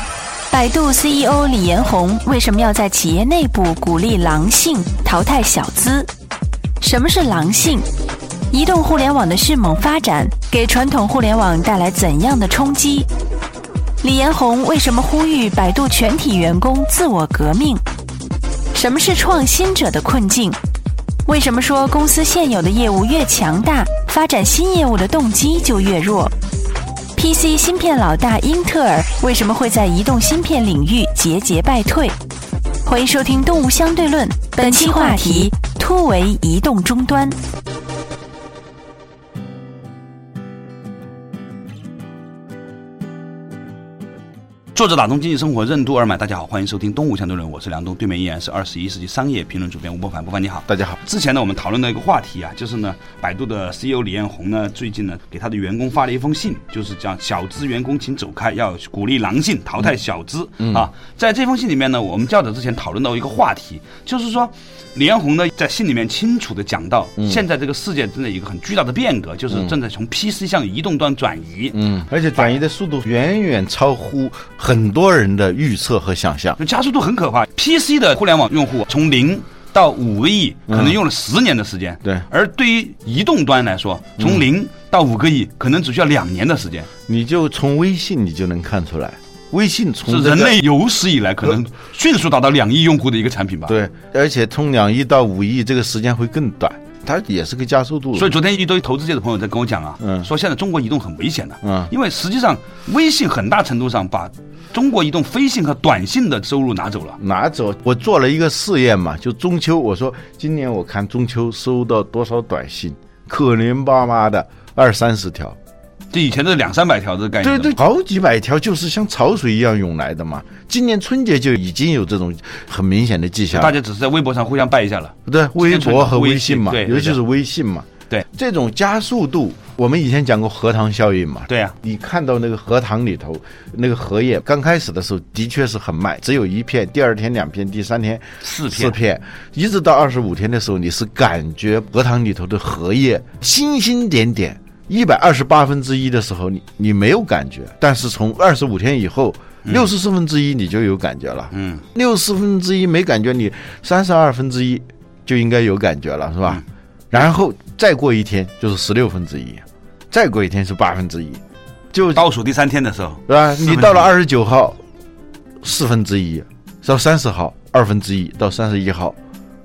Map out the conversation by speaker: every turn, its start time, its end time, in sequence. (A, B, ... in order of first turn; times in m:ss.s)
0:00.5-0:06.1 A
0:06.8-0:07.8 A
0:08.5-0:13.1 A
0:14.0-0:17.8 A
0:18.7-0:20.6 A
0:21.2-0:26.3 A
0:27.2-0:32.1 A
0:32.8-0:37.4 A
0:44.7-1:11.8 B
0:50.7-0:51.0 C
1:00.6-1:00.8 C
1:07.2-1:07.4 C
1:11.7-1:16.6 C
1:16.6-1:26.9 B
1:20.7-1:21.0 C
1:24.2-1:24.4 C
1:27.1-1:30.6 C
1:30.1-1:33.8 B
1:33.7-1:38.3 C
1:38.1-1:47.2 B
1:40.0-1:40.3 C
1:41.6-1:41.9 C
1:47.2-1:55.6 C
1:56.1-1:57.8 B
1:57.4-2:03.8 C
2:03.5-2:07.2 B
2:05.3-2:41.4 C
2:11.5-2:11.7 B
2:18.4-2:19.0 B
2:29.6-2:29.9 B
2:31.5-2:31.8 B
2:41.9-2:42.2 C
2:42.1-2:44.1 B
2:43.3-2:44.8 C
2:45.6-2:49.2 C